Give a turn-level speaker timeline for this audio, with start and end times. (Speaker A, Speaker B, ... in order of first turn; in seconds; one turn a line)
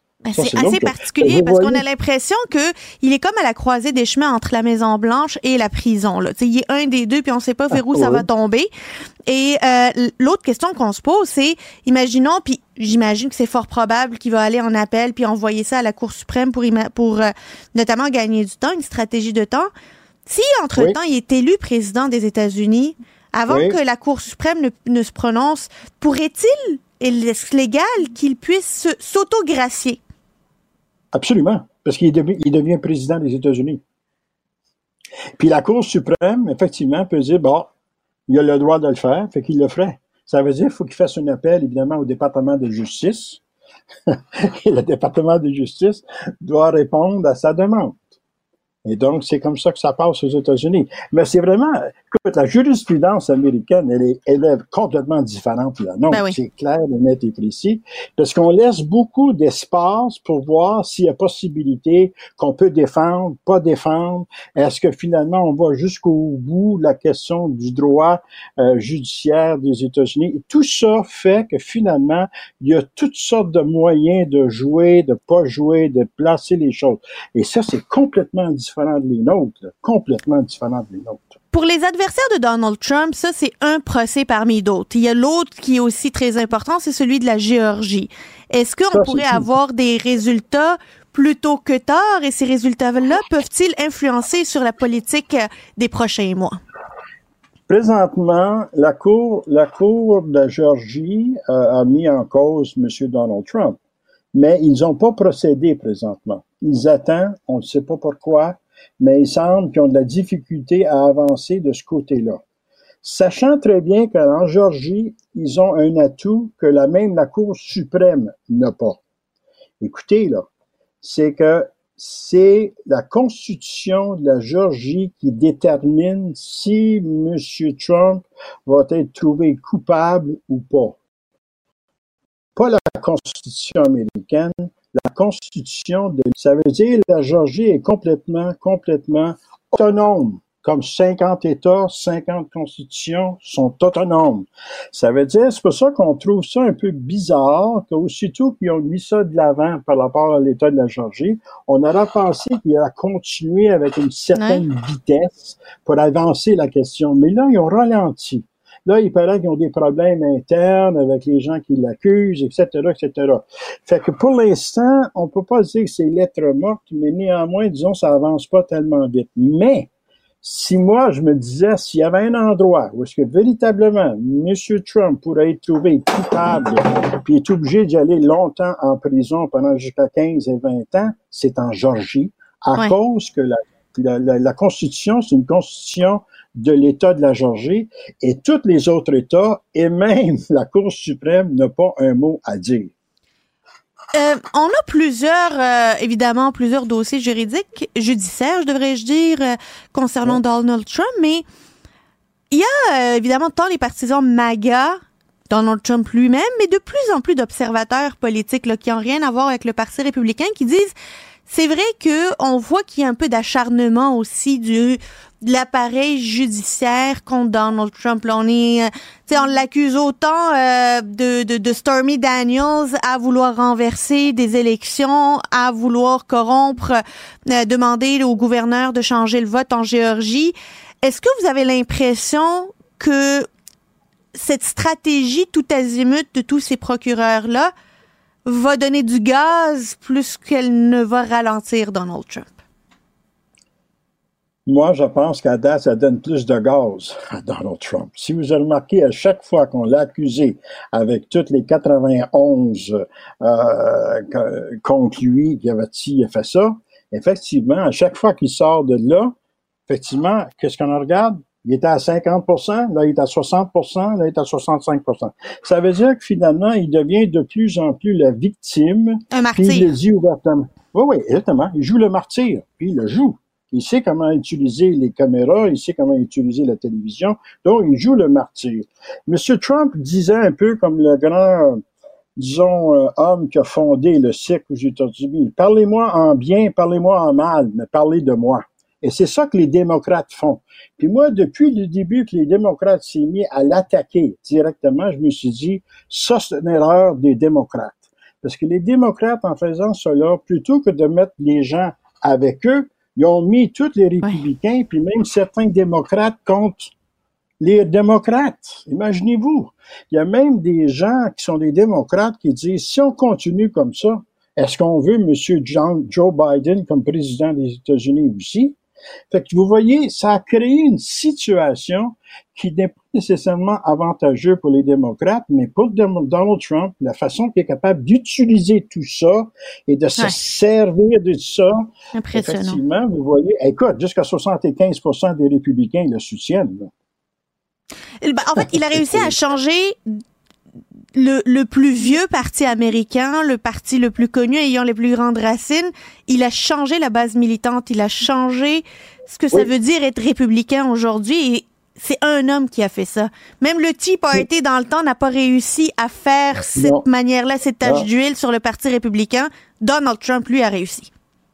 Speaker A: 0.2-8.7
Speaker B: 0.3-1.8
Speaker B: 7.7-8.3
Speaker A: 9.3-19.7
Speaker A: 20.3-30.0
Speaker B: 23.5-23.8
Speaker B: 31.1-33.8
Speaker B: 35.4-37.7
Speaker B: 38.3-43.4
Speaker B: 44.1-48.0
Speaker B: 48.8-81.3
Speaker A: 56.1-56.4
Speaker A: 81.5-96.6
Speaker B: 88.9-89.4
Speaker B: 97.7-103.8
Speaker B: 104.3-112.4
Speaker B: 113.0-119.0
Speaker B: 119.8-120.5
Speaker B: 121.0-131.0
Speaker B: 132.6-169.9
Speaker A: 154.3-154.6
Speaker B: 170.4-192.9
Speaker A: 194.1-201.4
Speaker A: 202.5-210.9
Speaker A: 211.5-233.5
Speaker A: 234.3-237.7
Speaker A: 238.4-242.5
Speaker B: 244.7-259.3
Speaker B: 259.9-281.8
Speaker A: 269.3-269.9
Speaker B: 282.4-306.9
Speaker B: 307.6-318.8
Speaker B: 319.3-336.9
Speaker A: 332.1-332.8
Speaker A: 338.2-340.2
Speaker B: 338.6-339.3
Speaker A: 341.1-361.1
Speaker B: 356.8-357.1
Speaker B: 357.8-358.1